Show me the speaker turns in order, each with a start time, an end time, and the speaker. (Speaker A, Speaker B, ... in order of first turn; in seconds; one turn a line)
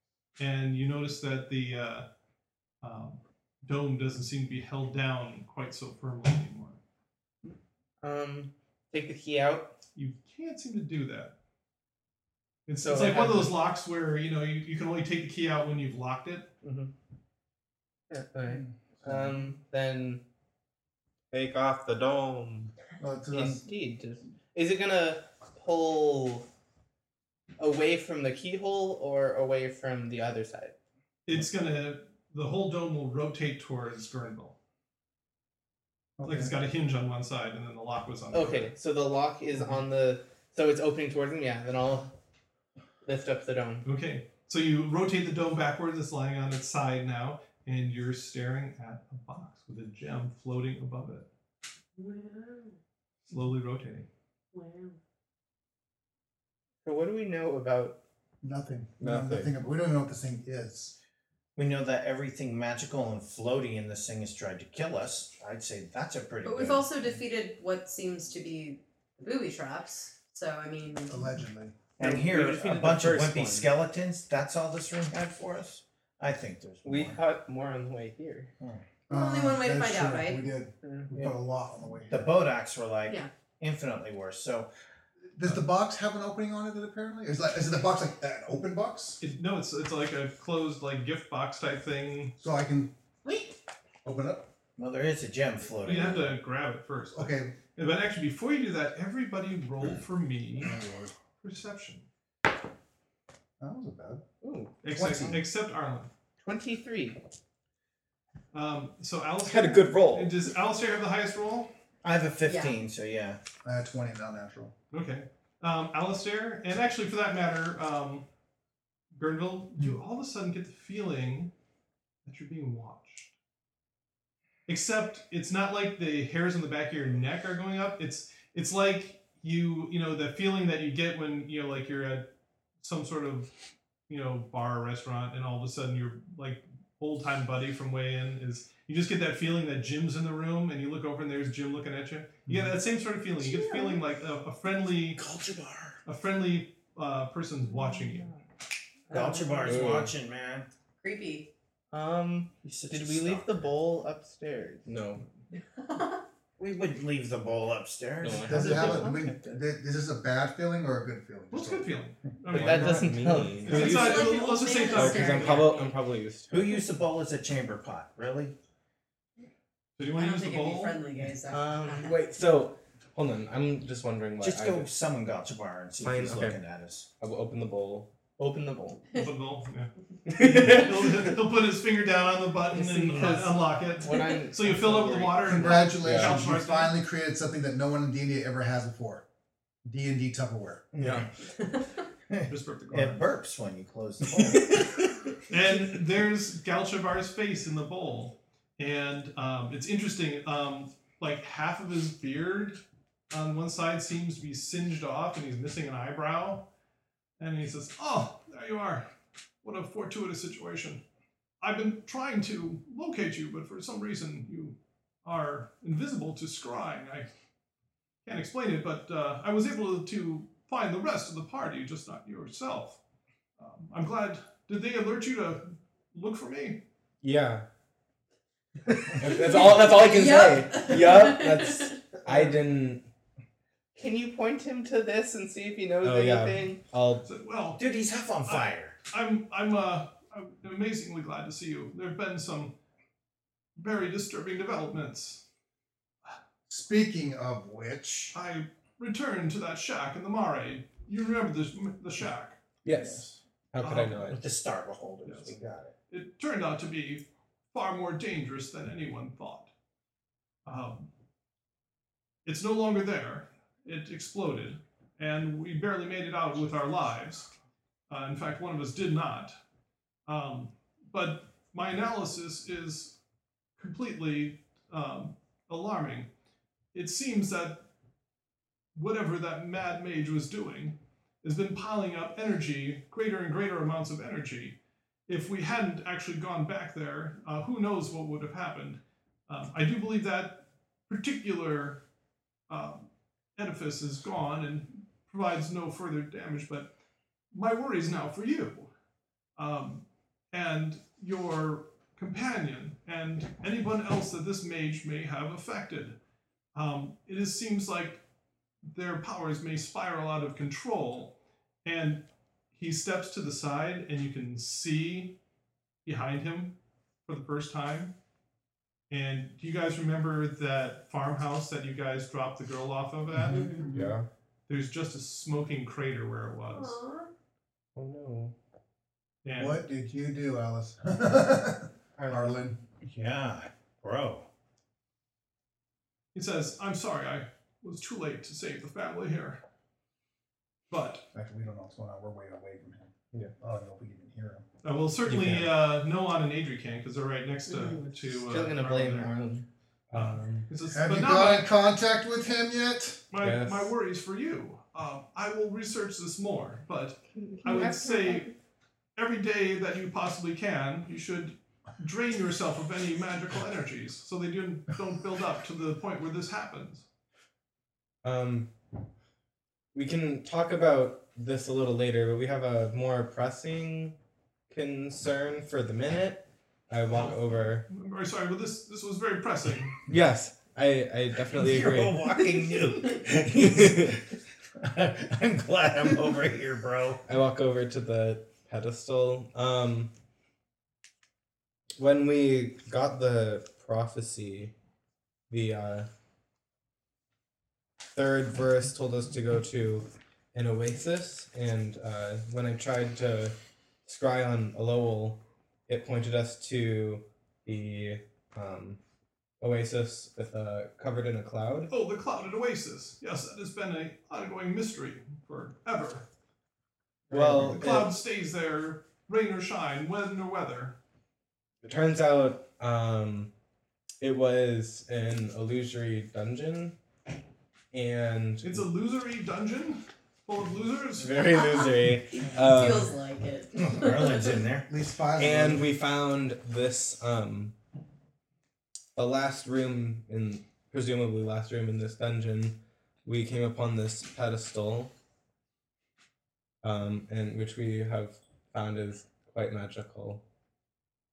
Speaker A: 0.4-2.1
Speaker A: 2.8-6.8
Speaker B: 8.0-9.7
Speaker A: 9.9-11.3
Speaker A: 12.7-16.5
Speaker B: 12.8-13.6
Speaker B: 16.6-16.9
Speaker B: 18.1-20.2
Speaker C: 19.0-19.4
Speaker D: 21.3-22.7
Speaker C: 23.0-23.6
Speaker B: 23.3-26.4
Speaker B: 27.6-30.7
Speaker A: 31.2-34.5
Speaker C: 36.2-36.5
Speaker A: 36.2-38.7
Speaker B: 38.3-42.1
Speaker B: 43.0-43.9
Speaker A: 43.8-51.3
Speaker E: 52.0-52.8
Speaker A: 53.3-54.1
Speaker E: 54.5-55.0
Speaker B: 56.8-58.0
Speaker C: 58.4-61.0
Speaker D: 59.0-59.5
Speaker F: 61.5-66.9
Speaker E: 66.4-71.2
Speaker C: 71.1-71.8
Speaker F: 72.0-77.2
Speaker D: 72.0-73.7
Speaker B: 76.8-78.5
Speaker F: 78.6-78.8
Speaker E: 79.1-80.4
Speaker C: 79.1-82.3
Speaker B: 80.8-81.3
Speaker F: 82.1-84.7
Speaker C: 85.3-89.2
Speaker A: 89.2-92.3
Speaker C: 92.4-92.9
Speaker C: 94.0-94.5
Speaker F: 94.8-96.4
Speaker A: 95.8-100.7
Speaker C: 97.1-97.5
Speaker C: 100.6-101.1
Speaker A: 101.4-102.0
Speaker C: 103.6-104.2
Speaker B: 104.4-105.3
Speaker A: 104.8-106.1
Speaker C: 104.9-105.4
Speaker B: 106.4-107.2
Speaker A: 108.5-111.7
Speaker D: 109.4-110.3
Speaker F: 112.0-113.4
Speaker E: 112.4-112.8
Speaker C: 113.6-114.7
Speaker A: 114.9-118.2
Speaker A: 119.1-121.5
Speaker A: 122.2-123.3
Speaker A: 124.7-132.3
Speaker A: 132.8-133.5
Speaker A: 134.1-145.2
Speaker B: 143.4-144.0
Speaker F: 145.2-146.0
Speaker A: 146.1-148.3
Speaker E: 149.1-150.0
Speaker F: 149.1-150.7
Speaker D: 149.6-150.1
Speaker E: 151.0-151.5
Speaker B: 151.9-154.9
Speaker F: 152.6-153.7
Speaker D: 154.8-155.2
Speaker E: 155.7-156.2
Speaker F: 156.6-159.1
Speaker D: 158.2-159.3
Speaker B: 158.4-159.6
Speaker C: 158.5-161.9
Speaker A: 161.5-165.7
Speaker D: 162.5-166.8
Speaker B: 162.5-163.9
Speaker E: 163.6-165.9
Speaker F: 166.5-168.6
Speaker A: 170.0-171.0
Speaker E: 170.1-172.1
Speaker B: 171.5-172.1
Speaker D: 172.0-174.9
Speaker F: 174.4-177.1
Speaker D: 176.0-176.6
Speaker D: 177.2-178.1
Speaker B: 178.4-179.0
Speaker A: 179.1-187.0
Speaker D: 180.2-181.2
Speaker B: 182.7-185.7
Speaker C: 185.4-189.2
Speaker D: 186.0-186.4
Speaker C: 189.8-190.9
Speaker F: 190.9-191.3
Speaker D: 191.0-191.3
Speaker F: 192.3-194.8
Speaker A: 192.5-193.2
Speaker A: 195.5-206.7
Speaker A: 207.4-209.1
Speaker A: 209.6-211.0
Speaker A: 211.6-217.3
Speaker A: 218.2-223.0
Speaker A: 223.6-226.8
Speaker D: 227.2-227.6
Speaker D: 228.9-233.1
Speaker E: 229.3-232.0
Speaker B: 233.9-236.8
Speaker D: 236.0-237.3
Speaker A: 237.2-237.8
Speaker F: 237.8-238.9
Speaker A: 238.4-242.7
Speaker A: 243.8-245.4
Speaker C: 246.7-248.3
Speaker A: 248.3-252.6
Speaker D: 252.8-254.4
Speaker F: 252.9-253.2
Speaker F: 253.8-255.5
Speaker D: 255.4-255.9
Speaker A: 256.1-259.7
Speaker A: 260.6-261.1
Speaker A: 262.4-267.5
Speaker A: 268.1-269.5
Speaker A: 270.3-273.2
Speaker A: 273.8-276.3
Speaker A: 276.9-277.9
Speaker A: 278.9-292.0
Speaker A: 292.7-296.9
Speaker A: 297.5-298.9
Speaker A: 299.6-306.2
Speaker A: 306.7-308.2
Speaker A: 308.9-315.4
Speaker A: 316.0-318.1
Speaker A: 319.1-323.6
Speaker C: 323.4-324.1
Speaker E: 323.5-323.8
Speaker D: 323.9-324.2
Speaker A: 324.7-327.0
Speaker E: 326.7-327.3
Speaker D: 327.9-328.5
Speaker A: 329.4-329.8
Speaker C: 329.5-332.8
Speaker B: 332.2-332.5
Speaker F: 333.0-334.5
Speaker A: 336.3-339.6
Speaker A: 340.9-341.2
Speaker C: 341.3-344.6
Speaker A: 344.8-349.3
Speaker D: 345.2-345.7
Speaker B: 347.7-349.7
Speaker D: 350.1-350.7
Speaker A: 350.1-351.7
Speaker C: 350.9-353.2
Speaker A: 353.3-358.5
Speaker D: 353.4-353.9
Speaker B: 357.4-358.6
Speaker A: 359.1-367.1
Speaker D: 368.2-368.7
Speaker D: 369.9-374.1
Speaker D: 374.7-377.9
Speaker A: 377.9-380.0
Speaker D: 380.1-382.2
Speaker F: 381.5-384.2
Speaker D: 383.5-384.2
Speaker F: 384.8-387.2
Speaker D: 387.3-390.1
Speaker D: 392.0-394.7
Speaker D: 395.5-396.1
Speaker D: 398.1-409.0
Speaker D: 409.6-411.9
Speaker A: 411.9-416.3
Speaker D: 417.3-418.1
Speaker B: 417.3-417.7
Speaker A: 417.6-421.0
Speaker D: 421.8-423.5
Speaker D: 424.2-427.0
Speaker D: 427.9-428.8
Speaker A: 428.6-431.6
Speaker D: 431.2-433.1
Speaker E: 431.6-434.6
Speaker F: 433.8-434.9
Speaker C: 434.9-435.9
Speaker D: 435.4-437.8
Speaker D: 439.1-445.1
Speaker D: 446.8-450.4